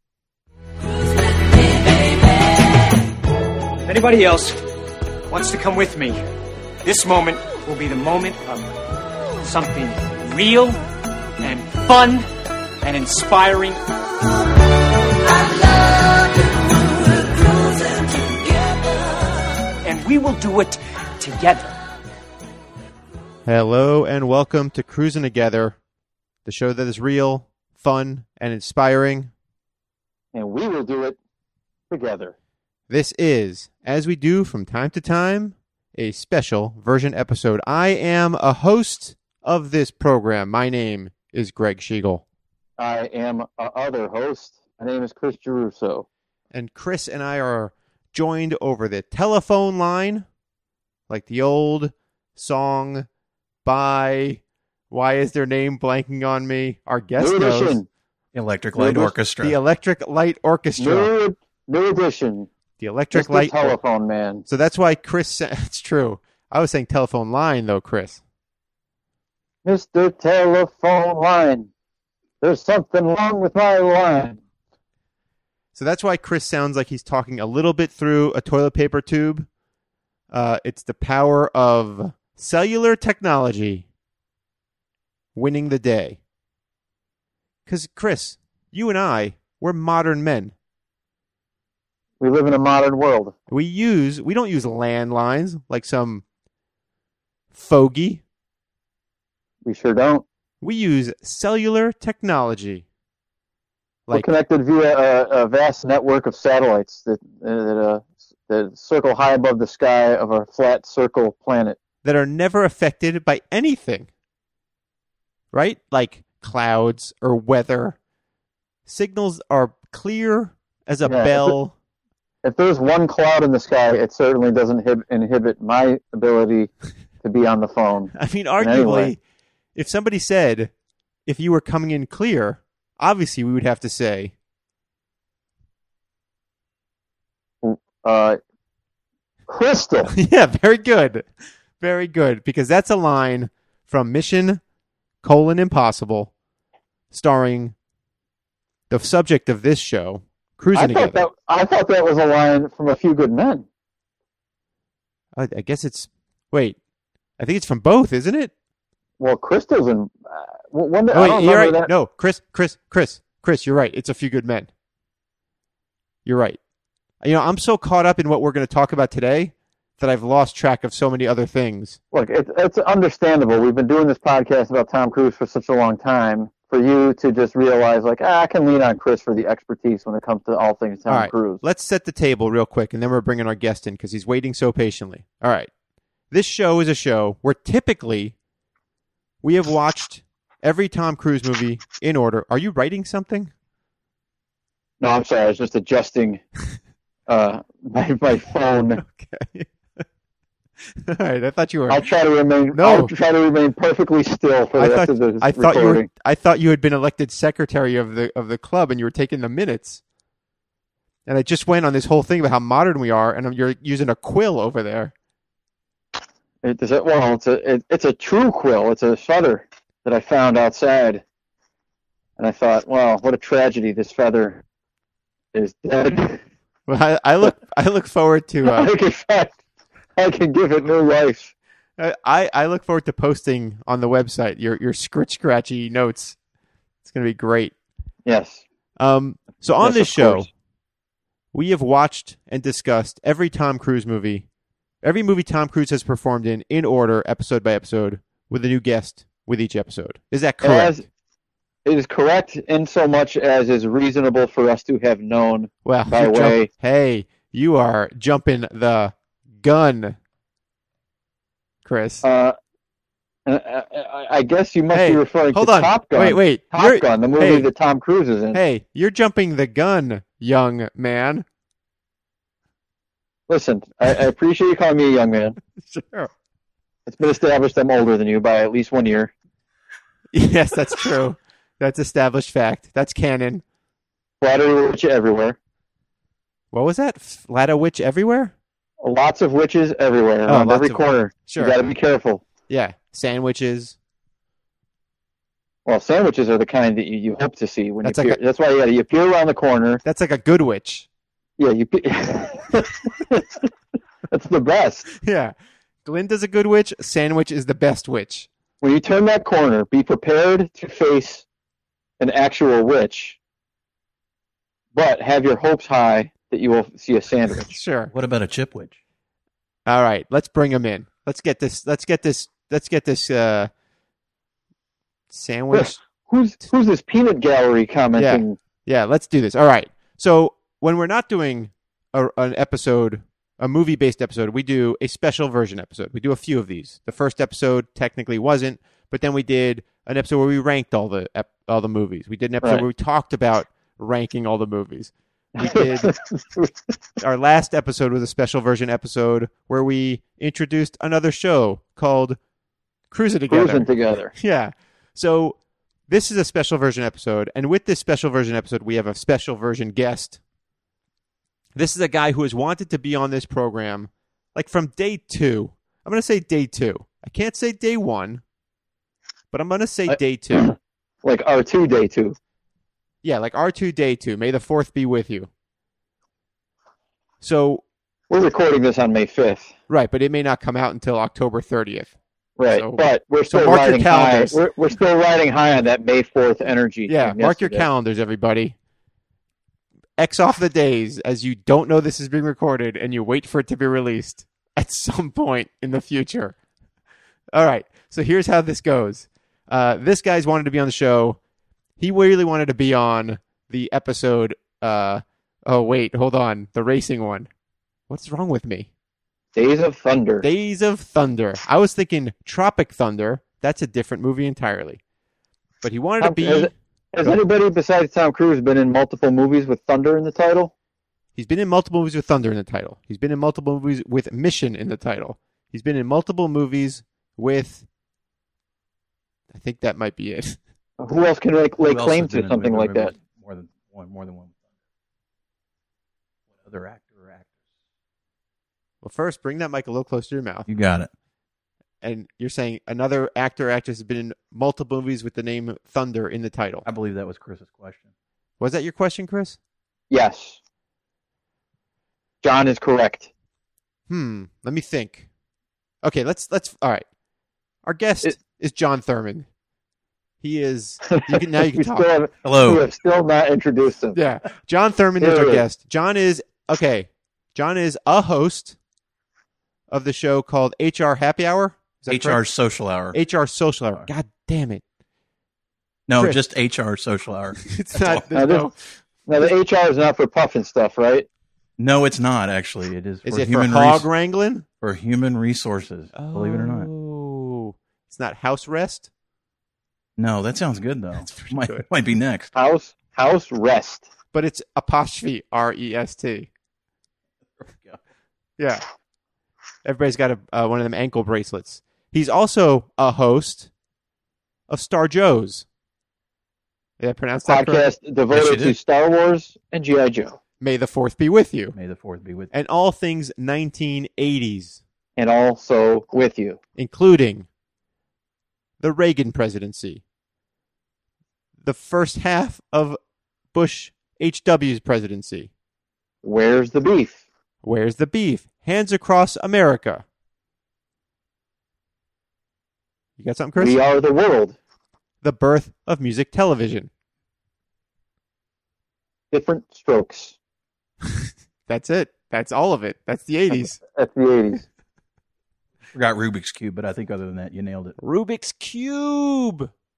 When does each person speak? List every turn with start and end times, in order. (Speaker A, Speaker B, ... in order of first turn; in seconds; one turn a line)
Speaker A: 1.4-3.0
Speaker A: 3.8-4.6
Speaker A: 5.3-6.2
Speaker A: 6.8-8.7
Speaker A: 9.4-10.8
Speaker A: 11.4-12.3
Speaker A: 12.8-13.8
Speaker A: 15.2-21.8
Speaker B: 23.4-25.8
Speaker B: 26.4-29.3
Speaker C: 30.3-31.2
Speaker C: 31.9-32.3
Speaker B: 32.9-42.2
Speaker C: 42.8-46.0
Speaker B: 46.5-50.3
Speaker B: 51.1-53.1
Speaker B: 53.6-57.8
Speaker C: 57.2-57.9
Speaker D: 58.3-59.6
Speaker B: 58.8-61.1
Speaker C: 60.8-62.5
Speaker B: 62.8-63.8
Speaker C: 63.1-64.4
Speaker B: 64.5-68.2
Speaker C: 69.6-71.7
Speaker C: 72.4-74.4
Speaker B: 75.8-79.5
Speaker B: 80.3-83.9
Speaker B: 85.3-86.2
Speaker B: 87.7-90.5
Speaker C: 92.2-93.3
Speaker B: 93.5-96.2
Speaker B: 97.5-98.2
Speaker C: 99.6-100.2
Speaker B: 100.6-102.8
Speaker C: 104.1-111.8
Speaker B: 112.0-114.1
Speaker B: 115.5-118.0
Speaker B: 118.9-121.8
Speaker C: 121.0-121.6
Speaker C: 122.4-126.7
Speaker C: 127.2-129.1
Speaker B: 128.2-129.2
Speaker B: 129.8-130.7
Speaker B: 131.3-134.3
Speaker C: 137.6-138.4
Speaker C: 139.5-140.1
Speaker B: 140.1-141.3
Speaker B: 141.8-144.6
Speaker B: 145.2-146.3
Speaker B: 147.1-147.8
Speaker B: 148.9-151.2
Speaker C: 150.7-153.7
Speaker B: 155.3-156.8
Speaker B: 157.4-158.5
Speaker C: 159.2-161.9
Speaker B: 161.1-164.7
Speaker B: 166.2-166.6
Speaker B: 167.2-172.0
Speaker C: 172.1-181.6
Speaker B: 181.1-185.7
Speaker B: 186.3-188.3
Speaker B: 189.4-193.5
Speaker C: 195.0-196.4
Speaker C: 197.3-199.0
Speaker B: 199.0-200.0
Speaker B: 201.0-202.1
Speaker C: 201.9-206.1
Speaker B: 202.7-203.1
Speaker B: 204.8-210.0
Speaker B: 211.3-215.1
Speaker C: 216.6-221.2
Speaker C: 222.4-224.6
Speaker C: 225.5-226.4
Speaker B: 226.9-228.9
Speaker C: 228.6-229.6
Speaker C: 230.2-231.5
Speaker B: 232.0-236.4
Speaker B: 237.0-237.7
Speaker C: 238.2-238.6
Speaker B: 239.0-240.5
Speaker C: 239.8-240.5
Speaker B: 241.5-244.4
Speaker B: 245.0-251.0
Speaker C: 250.6-251.1
Speaker C: 251.8-256.7
Speaker B: 255.8-260.2
Speaker B: 261.9-262.2
Speaker C: 262.2-262.6
Speaker C: 263.4-268.6
Speaker B: 264.9-267.7
Speaker B: 268.5-271.4
Speaker C: 273.5-275.6
Speaker B: 275.8-276.3
Speaker C: 277.1-279.3
Speaker B: 280.3-283.6
Speaker C: 284.4-285.6
Speaker B: 286.7-288.5
Speaker C: 289.0-292.4
Speaker B: 290.4-291.8
Speaker B: 292.7-293.9
Speaker C: 295.9-300.0
Speaker B: 298.0-298.4
Speaker B: 300.0-301.1
Speaker C: 301.6-303.6
Speaker C: 304.3-305.1
Speaker B: 305.2-308.5
Speaker C: 308.8-311.4
Speaker C: 312.2-313.4
Speaker C: 314.9-317.8
Speaker B: 317.6-318.1
Speaker D: 318.1-319.0
Speaker B: 319.9-323.7
Speaker B: 325.3-326.0
Speaker C: 325.7-328.6
Speaker B: 328.1-346.1
Speaker C: 345.6-346.7
Speaker B: 347.2-352.4
Speaker B: 353.1-355.6
Speaker C: 353.5-354.3
Speaker B: 356.1-360.4
Speaker B: 361.8-368.4
Speaker B: 369.5-370.7
Speaker C: 370.1-372.4
Speaker B: 373.2-375.5
Speaker B: 377.4-377.8
Speaker C: 378.3-379.7
Speaker B: 379.9-382.1
Speaker C: 382.6-387.9
Speaker B: 382.7-384.6
Speaker B: 387.1-388.8
Speaker B: 390.2-396.6
Speaker B: 397.5-401.4
Speaker B: 402.0-407.5
Speaker B: 408.1-408.9
Speaker C: 409.6-410.4
Speaker B: 410.4-415.0
Speaker B: 415.8-416.7
Speaker C: 416.2-420.7
Speaker B: 421.4-427.9
Speaker B: 429.5-430.6
Speaker C: 431.0-433.1
Speaker D: 431.8-434.6
Speaker D: 436.6-437.6
Speaker B: 439.0-440.7
Speaker D: 440.7-441.1
Speaker B: 442.0-446.9
Speaker D: 446.9-448.1
Speaker B: 448.6-449.6
Speaker C: 450.1-450.6
Speaker C: 452.4-453.3
Speaker B: 454.1-455.3
Speaker B: 456.0-457.1
Speaker B: 457.9-459.5
Speaker B: 460.4-462.1
Speaker C: 461.1-464.2
Speaker D: 462.4-462.8
Speaker B: 464.1-468.8
Speaker C: 465.2-465.6
Speaker B: 469.9-472.4
Speaker D: 472.1-473.2
Speaker B: 473.1-474.8
Speaker D: 476.1-478.2
Speaker B: 477.6-478.8
Speaker C: 478.3-478.7
Speaker C: 479.3-481.3
Speaker D: 481.8-484.1
Speaker B: 483.2-484.6
Speaker D: 484.8-486.9
Speaker B: 486.1-489.1
Speaker D: 490.2-492.5
Speaker B: 491.2-491.8
Speaker C: 492.5-494.1
Speaker B: 494.3-496.5
Speaker D: 497.6-498.0
Speaker B: 498.6-498.8
Speaker B: 499.8-503.7
Speaker B: 504.7-505.6
Speaker B: 507.0-507.9
Speaker C: 507.5-510.4
Speaker D: 508.3-508.8
Speaker B: 510.6-511.8
Speaker D: 511.7-512.5
Speaker B: 512.5-514.8
Speaker C: 515.2-516.6
Speaker B: 516.8-517.5
Speaker B: 518.8-520.0
Speaker B: 521.6-523.0
Speaker B: 523.5-525.5
Speaker C: 526.2-527.2
Speaker B: 527.6-530.0
Speaker B: 533.2-533.8
Speaker C: 533.6-534.6
Speaker B: 535.2-536.9
Speaker C: 539.3-540.4
Speaker B: 541.1-543.8
Speaker C: 543.5-544.6
Speaker D: 545.9-548.0
Speaker B: 548.0-549.7